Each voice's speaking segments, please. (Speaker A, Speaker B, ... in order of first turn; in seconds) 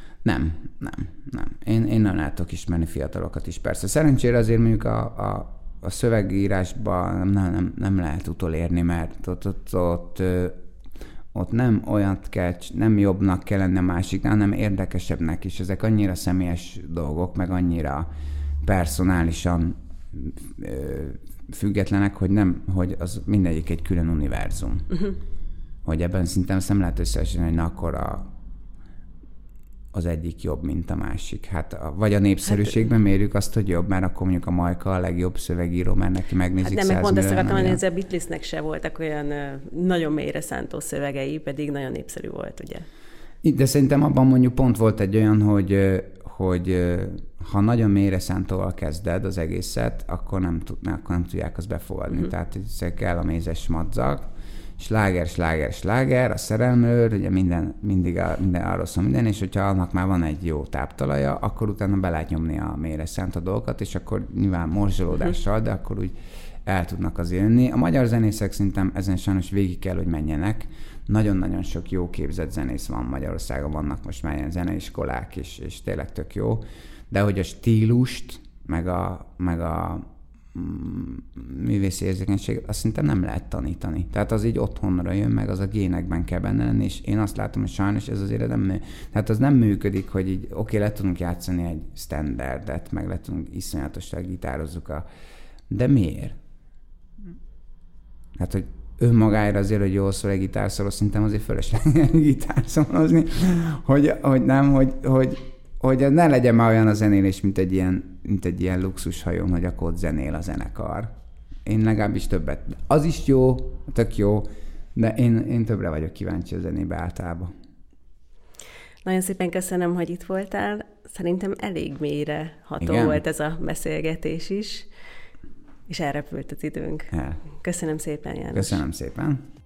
Speaker A: 0.2-10.6, 11.3-18.1, 18.6-25.1, 25.9-28.3, 29.9-37.8, 43.4-95.0, 95.7-96.4, 98.4-111.1, 111.6-117.5, 122.8-123.2, 127.1-127.4, 128.5-129.4
Speaker B: 36.6-42.9, 119.0-124.9, 125.9-128.8